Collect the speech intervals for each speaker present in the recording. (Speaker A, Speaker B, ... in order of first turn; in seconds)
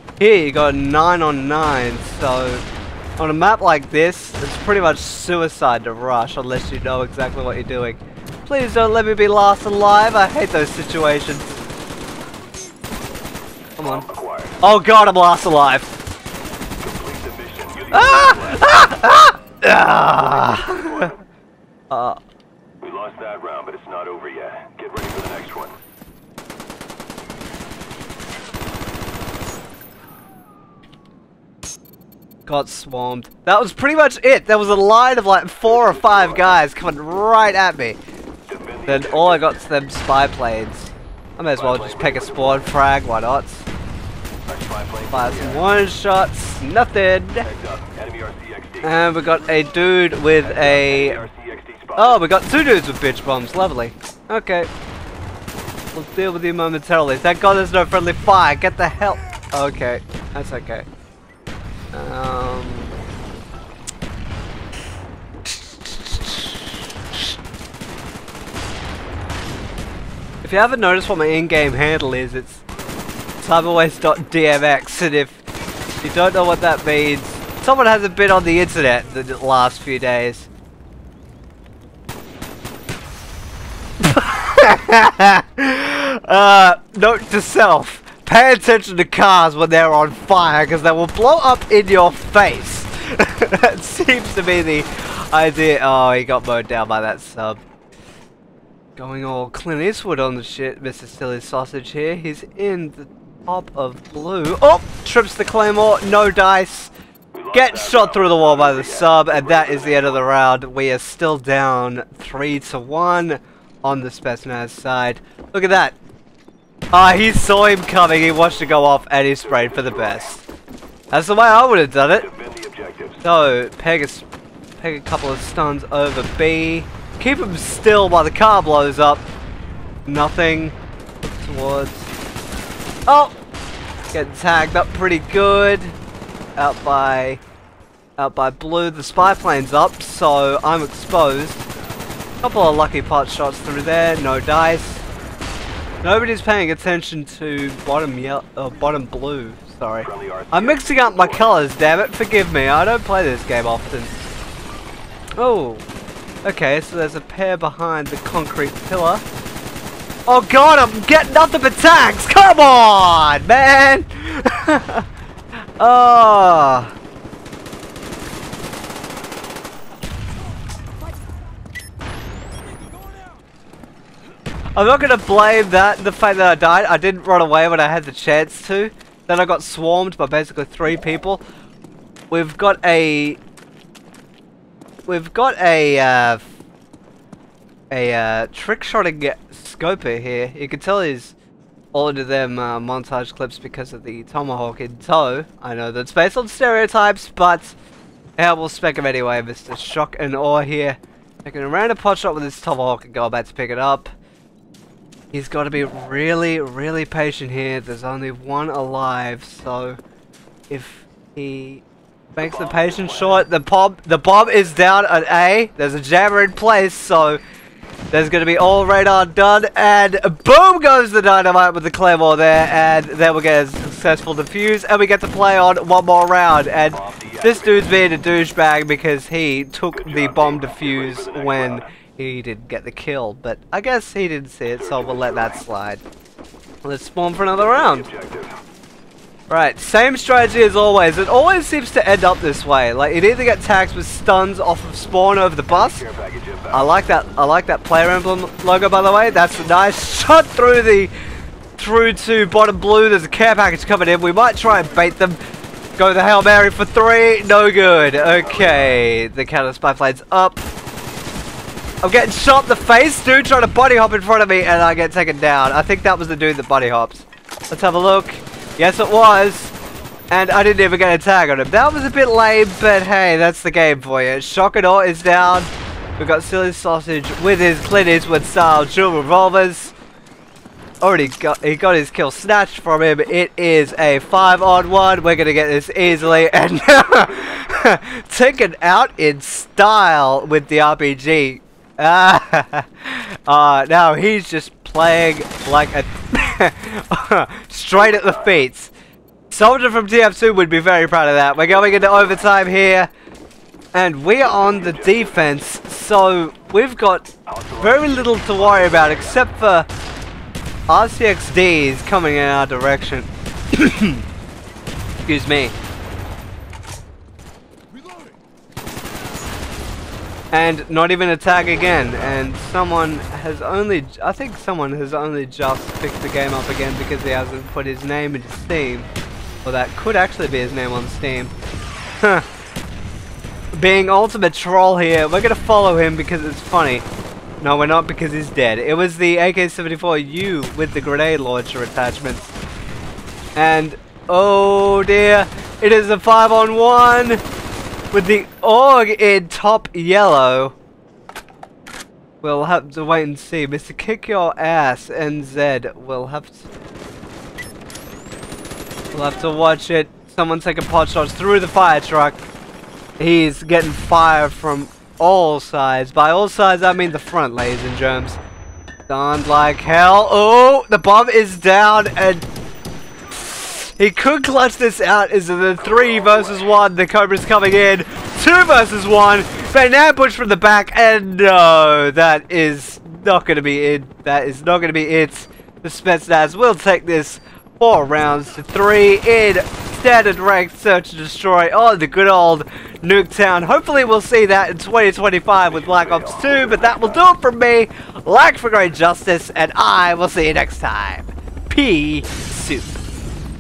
Speaker A: 0.2-2.6, 3.2-11.5, 13.8-14.1, 14.6-15.9, 17.9-21.2, 21.9-22.2, 32.5-38.0, 38.9-43.7, 45.1-47.5, 48.8-51.3, 52.0-54.7, 55.9-60.9, 61.9-63.0, 65.6-66.6, 70.4-72.6, 73.4-75.4, 76.0-80.5, 84.0-97.6, 99.0-106.9, 107.5-116.0, 116.9-120.5, 121.1-122.3, 123.2-129.3, 130.1-132.1, 133.1-133.3, 134.1-136.0, 136.6-137.4, 138.2-141.7, 142.4-145.1, 146.0-154.2, 155.4-155.8, 156.4-159.2, 160.3-165.1, 165.8-166.9, 174.8-181.4, 182.3-183.4, 185.1-186.5, 187.9-191.3, 191.9-197.8, 198.4-204.1, 205.3-210.0, 210.7-211.8, 212.3-217.4, 218.1-236.0, 236.8-238.1, 239.5-246.1, 246.7-251.1, 251.8-255.4, 256.0-260.7, 262.0-269.8, 270.3-279.9, 281.0-298.9, 299.5-303.1, 303.9-309.9, 310.9-314.2, 315.2-315.8, 320.5-329.1, 329.6-331.5, 332.2-332.5, 333.8-337.1, 337.6-342.5, 343.6-347.4, 348.1-350.8, 352.4-356.7, 359.1-362.4, 363.2-368.4, 369.1-372.5, 373.3-403.0
Speaker B: 14.1-14.5, 16.8-18.6, 22.8-25.8, 38.5-39.0, 44.5-45.3, 47.5-48.8, 50.8-52.0, 108.7-109.3, 122.3-123.2, 150.2-150.6, 227.1-227.4, 230.3-230.9, 237.8-238.5, 246.0-246.7, 307.7-308.8